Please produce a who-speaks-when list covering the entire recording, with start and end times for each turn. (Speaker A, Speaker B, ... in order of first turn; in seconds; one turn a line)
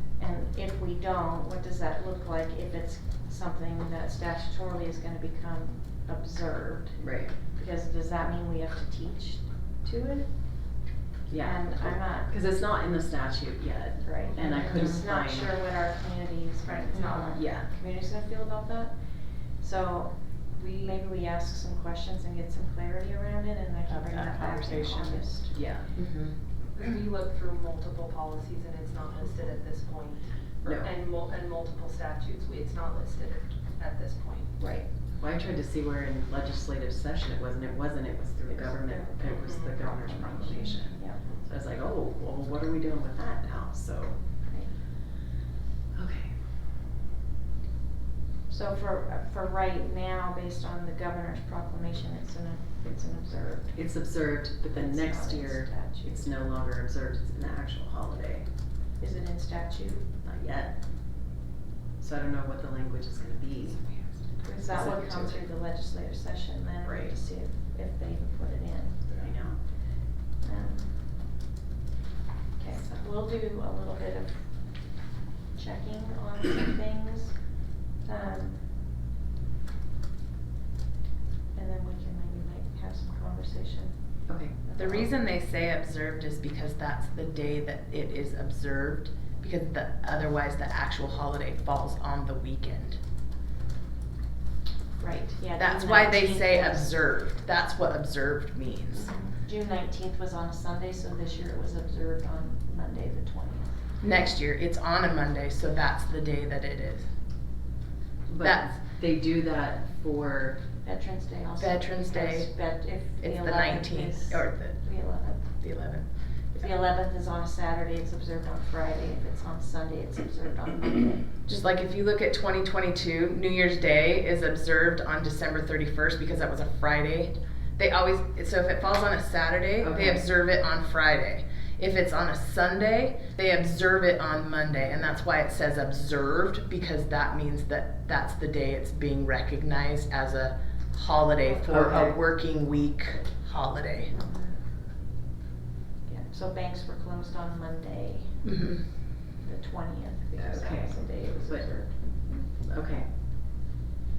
Speaker A: 0.1-12.3
Speaker B: 7.0-7.3
Speaker B: 11.3-15.6
Speaker A: 14.0-25.6
Speaker C: 14.3-15.0
Speaker C: 16.7-17.4
Speaker B: 17.3-17.7
Speaker C: 20.5-21.0
Speaker D: 23.9-25.3
Speaker B: 25.5-25.9
Speaker D: 25.9-26.4
Speaker C: 26.7-34.8
Speaker B: 30.6-30.9
Speaker A: 34.6-34.9
Speaker B: 35.2-44.2
Speaker A: 38.5-41.2
Speaker C: 39.2-39.8
Speaker A: 44.5-44.7
Speaker B: 45.9-46.4
Speaker A: 48.5-54.1
Speaker B: 53.7-58.5
Speaker A: 54.6-56.4
Speaker A: 59.0-60.1
Speaker B: 60.2-60.9
Speaker B: 62.0-64.1
Speaker A: 64.4-69.0
Speaker B: 64.7-65.4
Speaker B: 66.8-67.2
Speaker B: 69.1-69.6
Speaker A: 69.7-71.2
Speaker A: 72.5-74.9
Speaker B: 72.7-73.0
Speaker A: 75.5-78.7
Speaker A: 81.5-85.1
Speaker B: 84.3-84.5
Speaker D: 84.8-93.0
Speaker A: 95.0-96.9
Speaker D: 95.6-99.2
Speaker A: 99.1-103.8
Speaker D: 104.0-107.1
Speaker B: 108.3-110.6
Speaker D: 108.4-108.8
Speaker A: 110.8-115.5
Speaker D: 111.6-116.7
Speaker A: 116.6-121.5
Speaker D: 121.5-144.1
Speaker B: 129.8-130.2
Speaker A: 141.4-142.1
Speaker B: 141.7-142.2
Speaker A: 144.1-144.6
Speaker A: 146.1-148.8
Speaker D: 148.4-148.9
Speaker A: 149.3-152.0
Speaker B: 150.3-153.6